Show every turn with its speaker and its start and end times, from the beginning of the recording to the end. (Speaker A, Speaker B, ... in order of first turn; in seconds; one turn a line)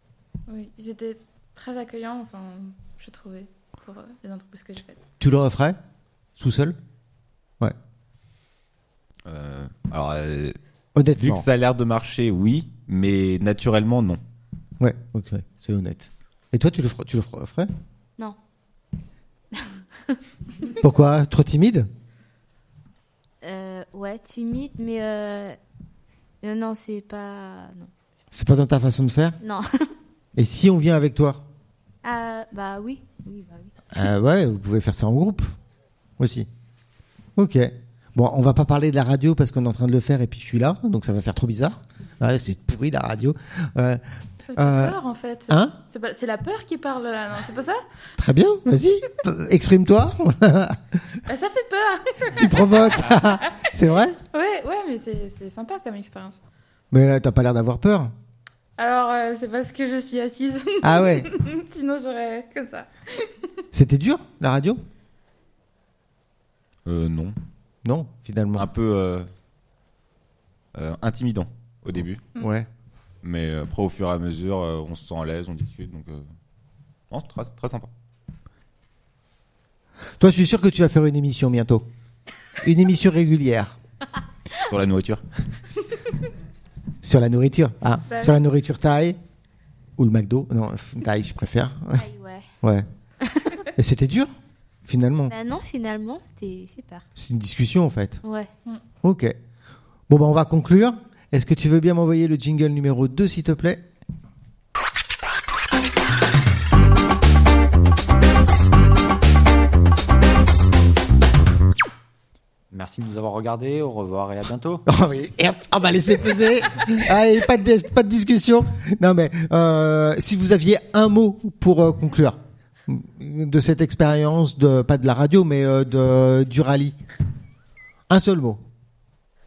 Speaker A: 0.5-5.0
Speaker B: 5.2-5.8
Speaker B: 6.4-6.8
Speaker C: 9.2-10.6
Speaker B: 10.9-11.4
Speaker C: 11.2-14.2
Speaker B: 14.8-17.7
Speaker D: 19.5-20.2
Speaker B: 20.8-21.9
Speaker D: 23.4-25.6
Speaker D: 26.4-27.9
Speaker B: 28.3-29.4
Speaker D: 29.4-29.9
Speaker B: 30.4-31.4
Speaker D: 32.0-34.0
Speaker B: 33.9-35.5
Speaker B: 36.2-36.5
Speaker B: 37.4-44.0
Speaker A: 44.5-47.8
Speaker B: 44.5-45.0
Speaker B: 45.5-45.7
Speaker B: 48.2-51.0
Speaker A: 51.3-53.7
Speaker B: 52.2-54.2
Speaker A: 54.3-56.4
Speaker B: 56.9-58.1
Speaker A: 58.8-63.5
Speaker B: 60.8-61.3
Speaker B: 63.7-64.8
Speaker C: 66.8-67.3
Speaker B: 67.8-68.7
Speaker C: 68.5-69.3
Speaker C: 70.7-72.2
Speaker B: 72.3-72.7
Speaker C: 73.2-76.2
Speaker C: 77.1-77.9
Speaker B: 80.2-81.9
Speaker B: 82.6-83.8
Speaker C: 84.6-85.2
Speaker B: 87.0-89.2
Speaker A: 88.1-88.3
Speaker B: 90.0-92.0
Speaker D: 91.9-92.5
Speaker B: 92.6-92.9
Speaker D: 93.2-93.6
Speaker B: 93.8-94.3
Speaker B: 94.8-95.3
Speaker D: 95.3-97.0
Speaker B: 97.2-98.2
Speaker D: 98.2-98.5
Speaker B: 99.0-99.3
Speaker B: 100.1-103.8
Speaker E: 112.7-114.8
Speaker B: 114.8-127.0
Speaker B: 128.1-128.6